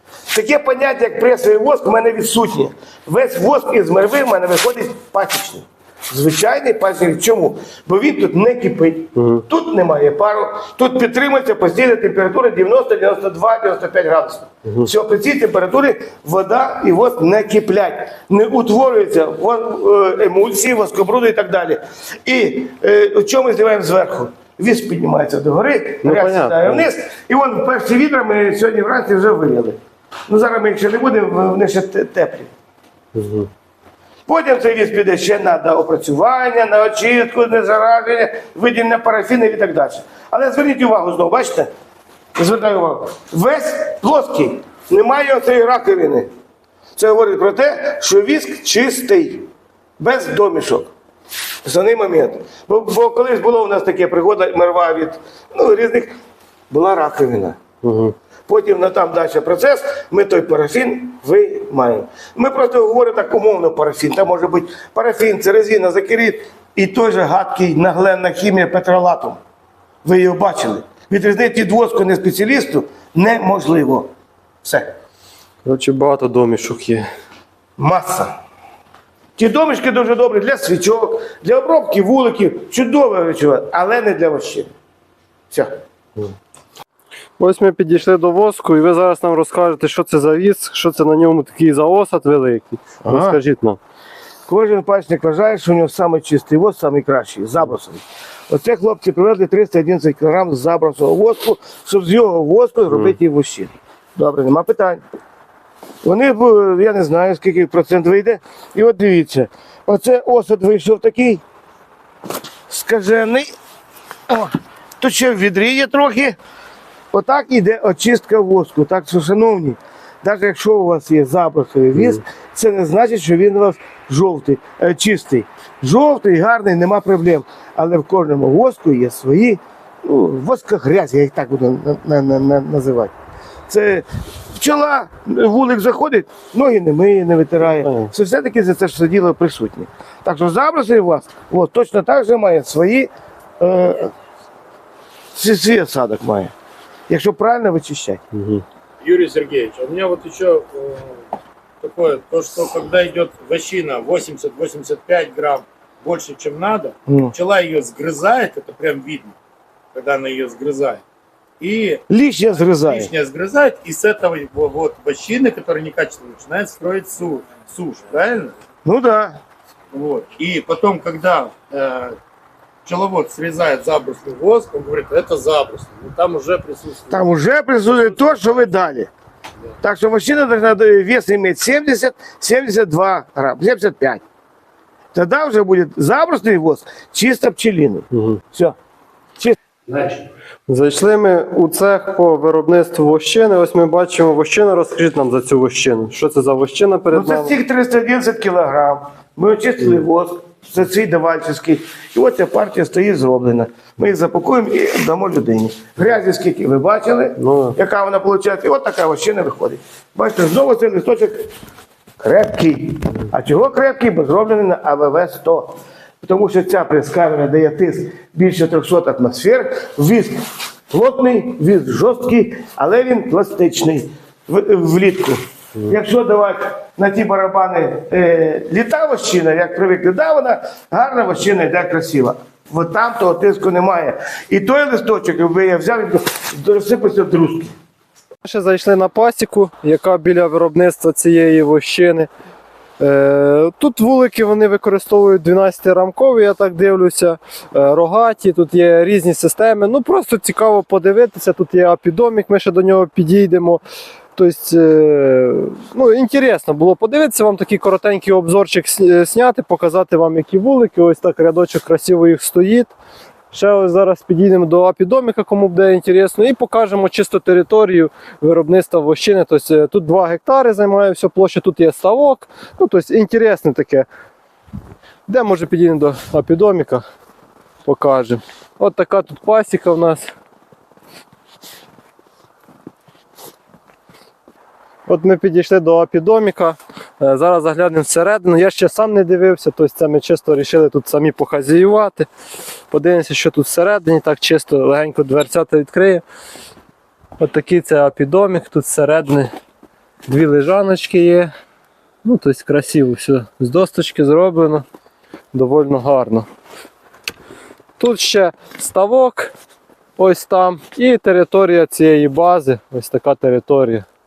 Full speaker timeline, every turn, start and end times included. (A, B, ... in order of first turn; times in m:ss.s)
0:00.3-0:32.5 A
0:09.2-0:09.4 B
0:26.0-0:26.8 B
0:33.2-0:33.5 B
0:34.3-0:41.7 A
0:42.4-0:46.3 A
0:47.0-0:49.5 A
0:50.0-0:50.9 A
0:51.6-0:56.1 A
0:56.7-0:57.6 A
0:57.8-0:58.1 B
0:58.5-1:09.4 A
1:10.0-1:14.1 A
1:14.6-1:14.9 A
1:15.6-1:17.1 B
1:17.8-1:18.3 A
1:19.4-1:24.7 A
1:25.5-1:25.8 A
1:27.4-1:33.8 B
1:33.0-1:33.4 A
1:34.5-1:45.0 A
1:42.9-1:43.2 B
1:46.0-1:51.4 A
1:52.7-1:53.5 A
1:54.3-1:56.4 A
1:57.1-2:13.1 A
2:13.7-2:23.1 A
2:17.8-2:18.1 B
2:23.6-2:24.1 A
2:25.3-2:26.5 A
2:27.1-2:28.2 A
2:28.3-2:28.6 B
2:29.0-2:31.2 C
2:31.8-2:39.4 C
2:37.1-2:37.3 A
2:39.9-2:41.0 C
2:41.6-2:42.0 C
2:42.1-2:43.1 A
2:42.8-2:48.5 C
2:48.8-2:49.4 A
2:49.9-2:52.2 C
2:52.9-2:57.2 C
2:57.1-2:59.1 A
2:59.8-3:04.2 A
3:05.1-3:08.8 A
3:08.1-3:08.4 B
3:09.9-3:17.5 B
3:17.1-3:31.5 A
3:27.4-3:27.8 B
3:32.2-3:57.7 A
3:58.4-4:02.3 B
4:03.0-4:13.8 B
4:14.4-4:22.9 B
4:23.5-4:34.1 B
4:35.3-4:37.0 B
4:37.8-4:40.3 B
4:45.1-4:52.3 B
4:52.9-4:56.2 B
4:57.4-4:59.5 B
5:00.3-5:01.5 B
5:02.2-5:04.8 B
5:05.5-5:06.4 B
5:08.0-5:09.5 B
5:10.2-5:14.1 B